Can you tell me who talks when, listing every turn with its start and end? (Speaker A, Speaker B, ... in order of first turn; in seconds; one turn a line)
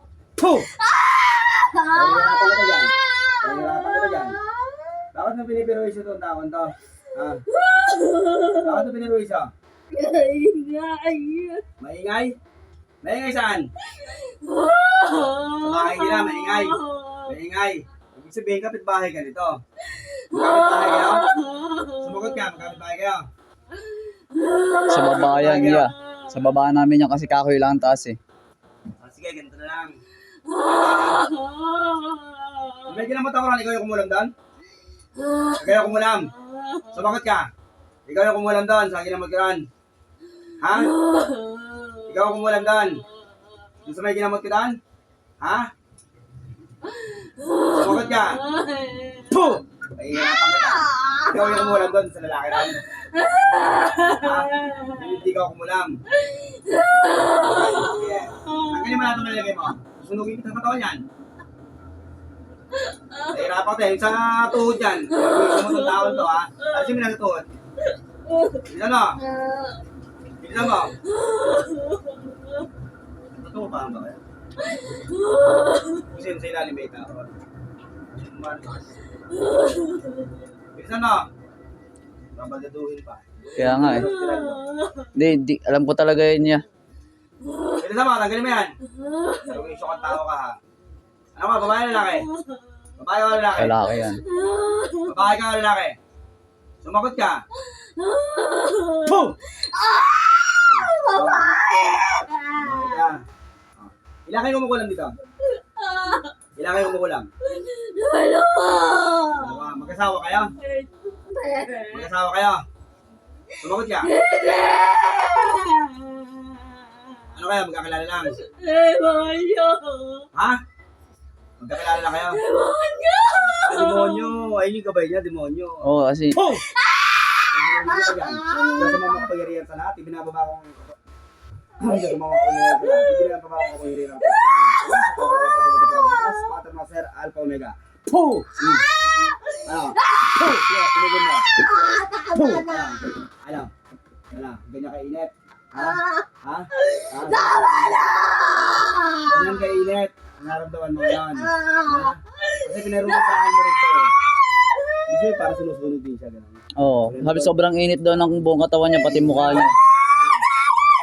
Speaker A: 0.4-0.7
Speaker B: 0.8-2.6
Speaker A: 1.9-4.4
Speaker B: 3.2-4.8
Speaker A: 5.1-7.4
Speaker B: 7.5-8.8
Speaker A: 8.5-9.5
Speaker B: 9.9-11.6
Speaker A: 11.8-12.3
Speaker A: 13.0-13.7
Speaker B: 14.0-17.2
Speaker A: 15.5-19.6
Speaker B: 20.0-22.4
Speaker A: 20.3-21.3
Speaker A: 22.0-23.3
Speaker B: 24.3-25.2
Speaker C: 24.9-28.2
Speaker A: 24.9-25.9
Speaker A: 29.0-30.0
Speaker B: 30.5-32.8
Speaker A: 30.6-31.2
Speaker A: 32.8-34.3
Speaker B: 35.2-35.8
Speaker A: 35.6-36.3
Speaker A: 36.9-37.5
Speaker A: 38.1-39.6
Speaker A: 40.6-40.9
Speaker B: 40.9-42.0
Speaker A: 42.0-43.0
Speaker A: 43.8-44.8
Speaker A: 45.4-45.7
Speaker B: 46.9-49.4
Speaker A: 47.7-48.5
Speaker A: 49.2-52.8
Speaker B: 50.8-51.6
Speaker B: 52.9-55.0
Speaker A: 54.1-56.0
Speaker B: 56.2-59.2
Speaker A: 57.3-61.0
Speaker B: 62.9-63.3
Speaker A: 63.3-67.5
Speaker B: 65.2-66.1
Speaker B: 68.3-68.6
Speaker A: 68.6-69.2
Speaker B: 69.2-69.8
Speaker A: 70.4-71.0
Speaker B: 71.1-72.4
Speaker A: 73.3-74.2
Speaker B: 74.9-76.0
Speaker A: 76.0-77.3
Speaker A: 78.1-79.4
Speaker B: 79.6-80.2
Speaker A: 80.7-81.3
Speaker A: 82.3-84.7
Speaker C: 83.5-84.1
Speaker B: 83.8-85.1
Speaker C: 85.1-86.6
Speaker A: 87.8-88.8
Speaker B: 89.0-89.9
Speaker A: 89.4-90.6
Speaker A: 91.3-92.3
Speaker A: 93.0-94.2
Speaker C: 93.5-94.2
Speaker B: 94.3-95.1
Speaker A: 95.0-96.0
Speaker A: 96.8-97.4
Speaker B: 97.8-103.0
Speaker A: 99.0-99.4
Speaker A: 100.6-101.5
Speaker A: 102.5-103.2
Speaker A: 103.8-105.1
Speaker B: 105.5-106.3
Speaker A: 106.5-107.3
Speaker B: 107.5-109.7
Speaker A: 109.3-110.5
Speaker B: 110.6-112.0
Speaker A: 111.9-112.6
Speaker A: 113.6-114.1
Speaker B: 114.0-117.2
Speaker A: 117.3-118.4
Speaker B: 118.4-120.3
Speaker A: 120.3-120.6
Speaker A: 121.6-122.4
Speaker B: 122.3-124.3
Speaker A: 123.6-126.7
Speaker C: 125.8-126.4
Speaker A: 127.5-131.0
Speaker B: 128.5-128.8
Speaker A: 131.8-138.8
Speaker A: 139.6-141.5
Speaker B: 141.7-142.8
Speaker A: 142.3-143.7
Speaker A: 144.3-154.1
Speaker B: 146.9-149.3
Speaker B: 151.6-151.9
Speaker A: 155.1-157.5
Speaker C: 156.8-159.7
Speaker A: 159.0-160.4